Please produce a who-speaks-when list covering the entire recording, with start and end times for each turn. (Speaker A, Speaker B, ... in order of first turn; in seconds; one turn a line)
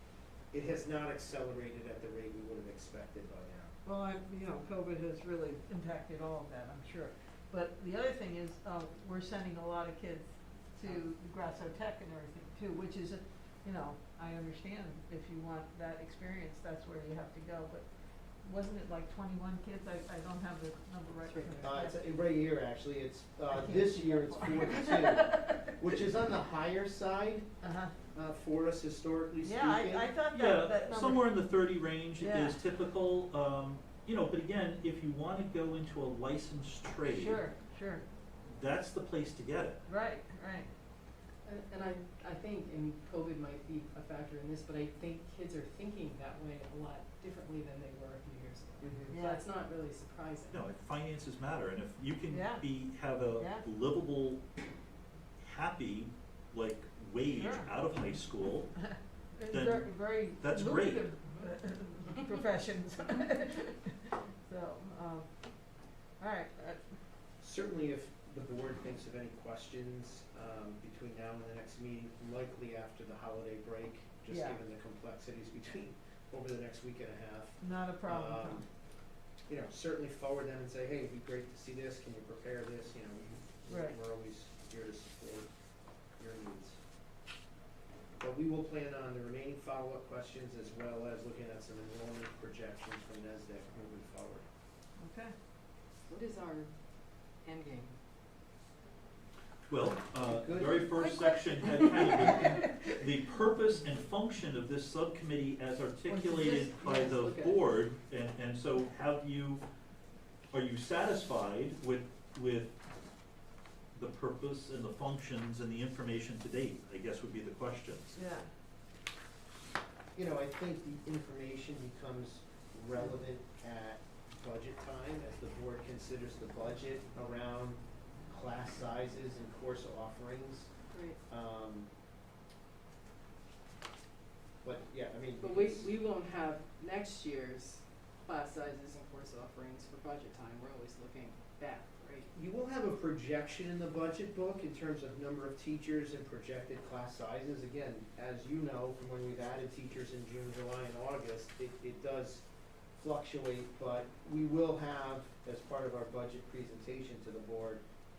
Speaker A: 0.5-3.7
Speaker B: 3.8-17.9
Speaker B: 18.4-21.9
Speaker C: 21.2-21.6
Speaker A: 21.6-27.4
Speaker B: 23.5-25.7
Speaker B: 27.6-27.9
Speaker A: 28.1-30.1
Speaker B: 29.4-31.3
Speaker D: 30.3-37.4
Speaker B: 32.2-32.6
Speaker B: 37.1-38.0
Speaker D: 38.5-39.8
Speaker B: 39.9-40.7
Speaker C: 41.4-50.6
Speaker A: 48.8-49.2
Speaker B: 49.1-49.4
Speaker D: 50.5-54.4
Speaker B: 52.3-52.6
Speaker B: 53.4-53.6
Speaker D: 55.4-58.7
Speaker B: 57.3-57.7
Speaker B: 58.8-65.3
Speaker D: 59.5-61.1
Speaker B: 66.2-66.8
Speaker A: 67.4-78.7
Speaker B: 74.3-74.6
Speaker B: 77.6-78.6
Speaker A: 79.5-85.5
Speaker B: 83.7-84.0
Speaker A: 86.2-86.8
Speaker A: 88.2-94.5
Speaker B: 95.0-95.3
Speaker C: 96.1-96.7
Speaker C: 97.4-97.9
Speaker D: 99.7-109.6
Speaker A: 100.2-101.1
Speaker B: 101.0-102.9
Speaker C: 106.1-107.6
Speaker D: 110.5-112.7
Speaker D: 113.9-118.2
Speaker B: 118.1-118.5
Speaker A: 120.1-130.7
Speaker C: 130.9-131.2
Speaker A: 131.3-131.9
Speaker A: 134.6-135.9
Speaker C: 135.4-142.3
Speaker A: 142.3-152.4
Speaker A: 152.9-157.8